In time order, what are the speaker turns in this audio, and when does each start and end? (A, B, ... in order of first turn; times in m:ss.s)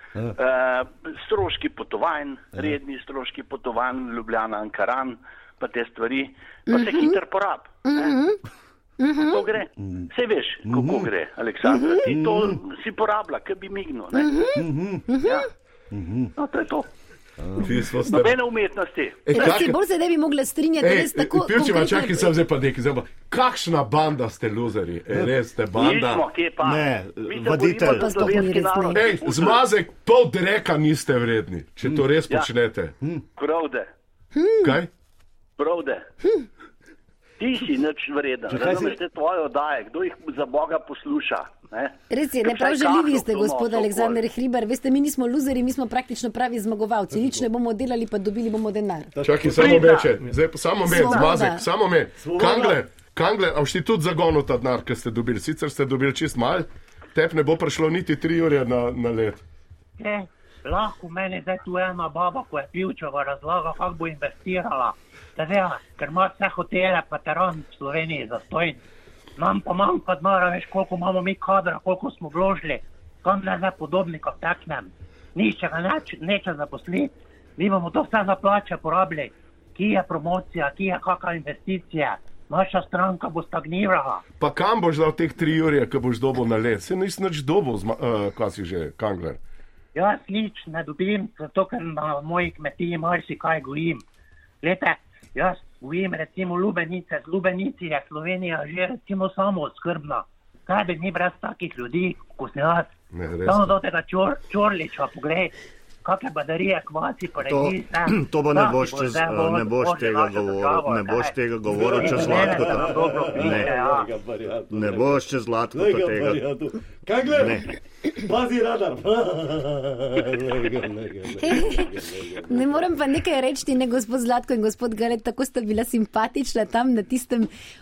0:00.4-0:08.2 A
0:06.7-0:07.2 B
0:07.8-0:08.4 B
0:09.0-0:09.4 B
0:09.2-0:14.3 A
0:09.8-0:10.1 C
0:10.7-0:11.1 C
0:12.0-0:12.6 C
0:14.2-0:15.4 B
0:14.6-0:15.1 C
0:15.9-0:16.3 C
0:16.4-0:16.9 A
0:17.4-0:17.7 C
0:17.6-0:18.4 D
0:18.0-0:19.2 A
0:19.2-0:19.8 D
0:19.3-0:22.3 B
0:20.8-0:26.2 D
0:25.8-0:29.6 A
0:26.6-0:28.5 E
0:27.9-0:29.0 B
0:28.9-0:33.0 D
0:33.4-0:33.9 A
0:34.4-0:34.8 B
0:34.6-0:34.9 D
0:35.6-0:36.0 A
0:37.4-0:44.2 A
0:38.5-0:39.0 C
0:42.1-0:49.1 B
0:49.1-0:50.2 C
0:49.2-0:59.4 D
0:49.6-0:50.1 A
0:50.8-0:51.6 B
0:52.2-0:52.8 C
1:00.0-1:08.8 F
1:09.4-1:24.2 F
1:24.4-1:29.4 D
1:30.0-1:34.0 F
1:34.6-1:42.9 F
1:43.1-1:43.8 D
1:43.4-1:45.5 F
1:46.0-1:51.3 F
1:47.4-1:53.7 E
1:51.8-2:02.8 C
1:52.0-1:54.1 F
1:54.7-1:56.5 E
1:57.2-1:57.8 E
2:01.4-2:01.9 B
2:02.5-2:07.5 B